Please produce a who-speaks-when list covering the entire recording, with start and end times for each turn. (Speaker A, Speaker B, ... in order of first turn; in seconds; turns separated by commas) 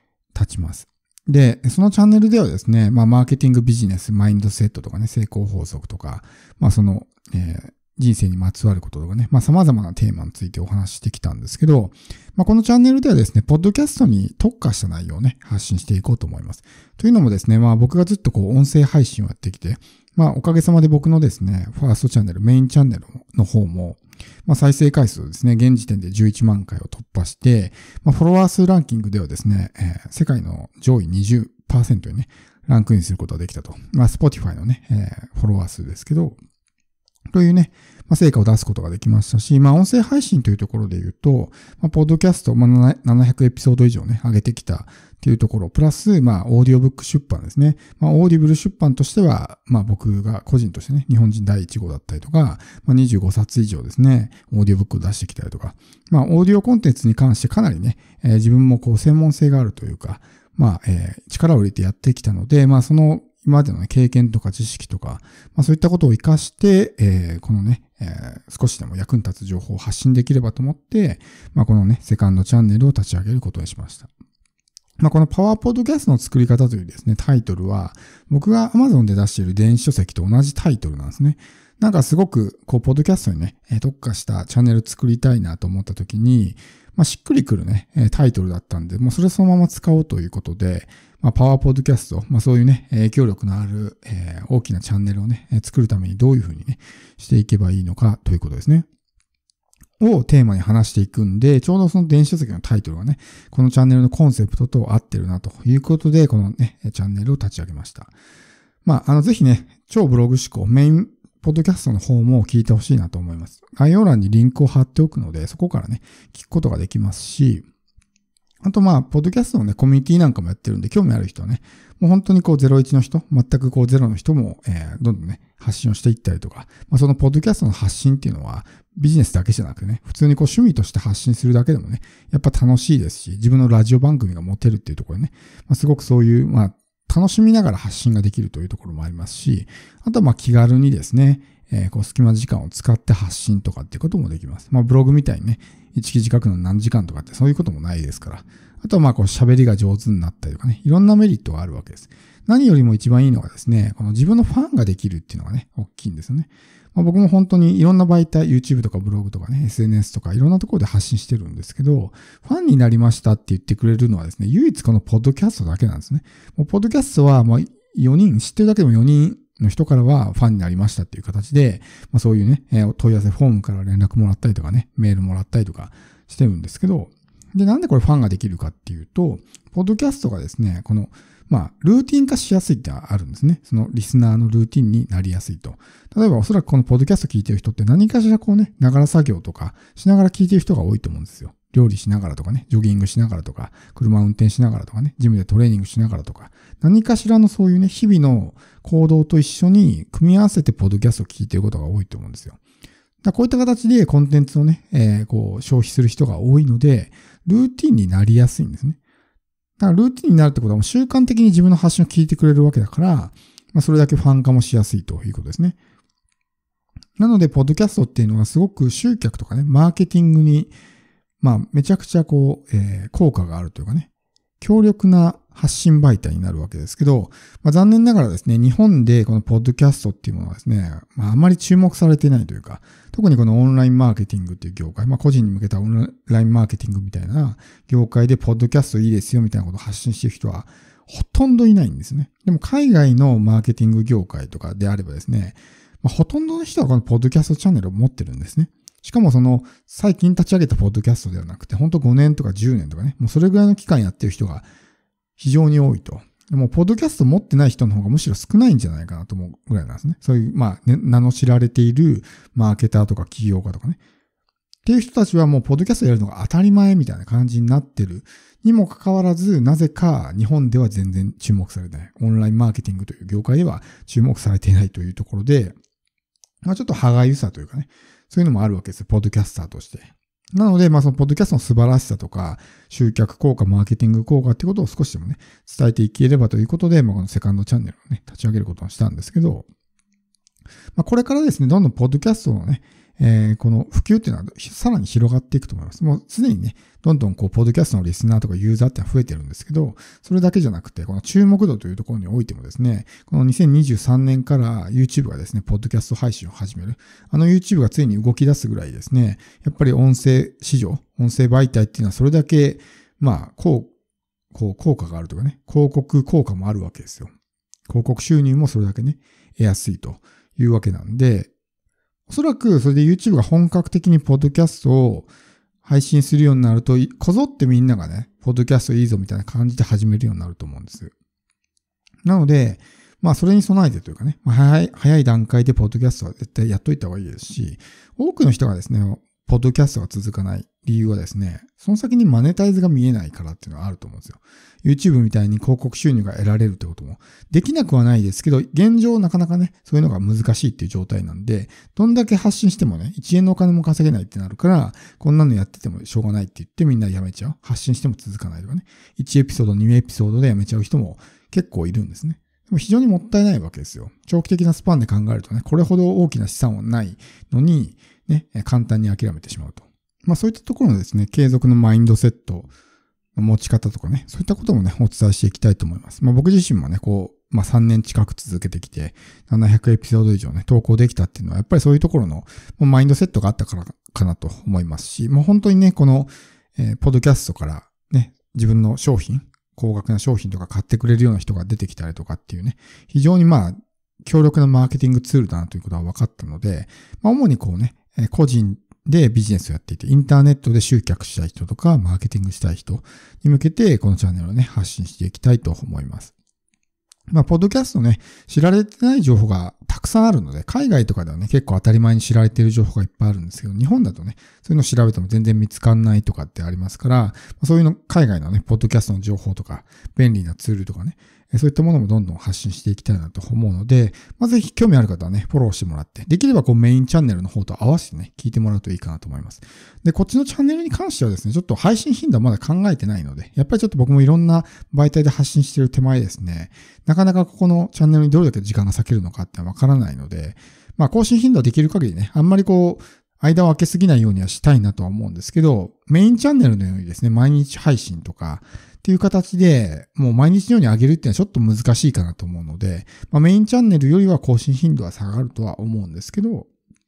Speaker A: 0.3-36.4, Speaker A: 37.3-74.1, Speaker A: 75.0-98.9, Speaker A: 100.0-108.1, Speaker A: 108.8-117.7, Speaker A: 118.6-202.6, Speaker A: 203.2-209.0, Speaker A: 209.8-215.8, Speaker A: 217.2-220.7, Speaker A: 221.4-224.1, Speaker A: 224.6-254.7, Speaker A: 255.4-264.0, Speaker A: 264.9-275.8, Speaker A: 276.6-289.7, Speaker A: 291.0-313.9, Speaker A: 314.5-317.3, Speaker A: 317.9-321.5, Speaker A: 322.3-325.3, Speaker A: 325.8-331.1, Speaker A: 332.2-372.7, Speaker A: 373.4-406.3, Speaker A: 407.3-456.7